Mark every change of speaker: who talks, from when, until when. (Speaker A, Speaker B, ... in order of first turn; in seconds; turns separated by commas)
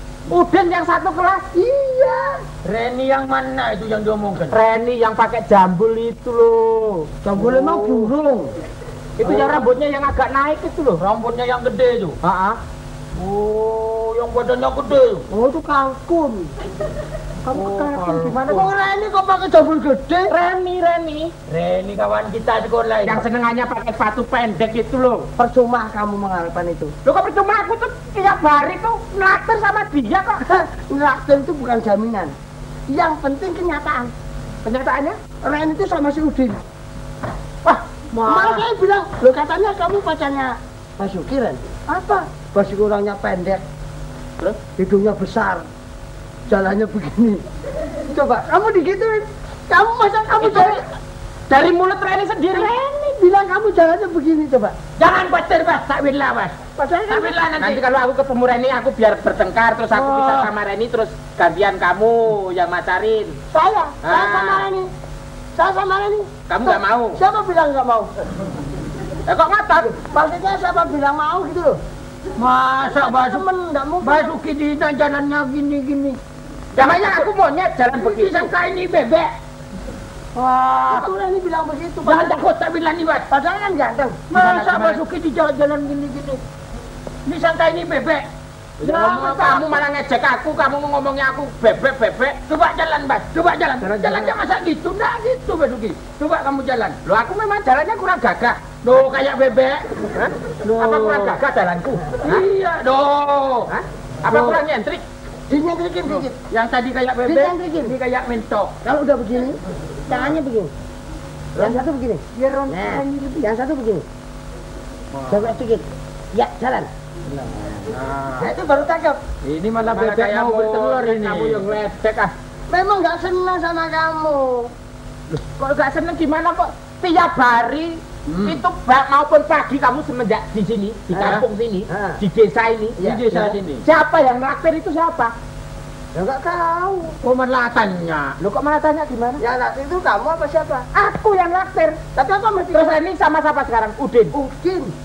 Speaker A: 0.3-1.4, Speaker B: 1.6-2.4, Speaker C: 2.6-4.6, Speaker A: 4.5-7.1, Speaker B: 7.2-8.4, Speaker C: 7.4-8.4, Speaker A: 9.2-11.0, Speaker B: 9.2-9.6, Speaker C: 11.0-12.2, Speaker A: 12.2-12.6, Speaker C: 13.2-15.2, Speaker B: 15.3-16.5, Speaker A: 17.4-18.7, Speaker C: 17.5-18.7, Speaker B: 18.5-20.4, Speaker A: 20.3-21.3, Speaker C: 21.5-23.3, Speaker A: 23.0-25.3, Speaker B: 25.4-26.9, Speaker A: 27.1-30.5, Speaker B: 30.5-32.3, Speaker B: 32.9-34.1, Speaker A: 34.6-35.2, Speaker B: 35.4-36.6, Speaker A: 37.6-38.6, Speaker B: 38.2-43.6, Speaker B: 44.8-45.7, Speaker B: 46.5-47.4, Speaker B: 48.1-50.8, Speaker A: 50.4-50.8, Speaker A: 51.5-52.7, Speaker B: 52.5-54.8, Speaker C: 55.0-57.8, Speaker B: 56.8-57.4, Speaker A: 57.6-63.4, Speaker C: 59.9-60.5, Speaker B: 63.5-64.9, Speaker A: 64.0-64.7, Speaker B: 65.6-68.1, Speaker A: 66.5-67.2, Speaker A: 69.3-69.9, Speaker B: 69.9-71.8, Speaker C: 72.4-73.4, Speaker B: 72.9-74.3, Speaker C: 74.0-76.2, Speaker A: 76.8-78.5, Speaker C: 76.8-77.3, Speaker C: 78.0-79.3, Speaker C: 80.3-81.1, Speaker B: 80.9-82.4, Speaker C: 82.0-83.3, Speaker B: 83.3-84.3, Speaker C: 84.3-86.4, Speaker A: 84.4-85.0, Speaker C: 87.3-88.3, Speaker C: 88.8-89.8, Speaker A: 88.8-92.4, Speaker C: 92.5-97.0, Speaker A: 93.8-94.3, Speaker A: 97.0-98.6, Speaker C: 98.8-100.0, Speaker A: 100.1-102.5, Speaker C: 100.6-101.4, Speaker C: 102.2-103.7, Speaker A: 103.7-105.0, Speaker C: 104.3-104.6, Speaker B: 105.5-106.4, Speaker C: 106.1-108.8, Speaker B: 107.2-108.0, Speaker B: 108.8-110.7, Speaker B: 111.6-114.1, Speaker C: 112.4-113.2, Speaker C: 115.1-115.6, Speaker B: 115.3-116.9, Speaker C: 117.3-118.5, Speaker B: 118.4-119.2, Speaker C: 119.4-121.7, Speaker A: 119.9-122.3, Speaker B: 122.7-124.7, Speaker A: 125.3-133.0, Speaker C: 128.3-128.6, Speaker B: 131.2-132.2, Speaker B: 133.0-133.6, Speaker C: 133.0-133.8, Speaker A: 133.8-135.3, Speaker B: 136.1-137.2, Speaker C: 137.2-138.4, Speaker A: 138.4-139.4, Speaker B: 139.4-140.9, Speaker A: 140.9-142.0, Speaker B: 142.2-143.0, Speaker A: 142.7-144.3, Speaker B: 144.3-144.9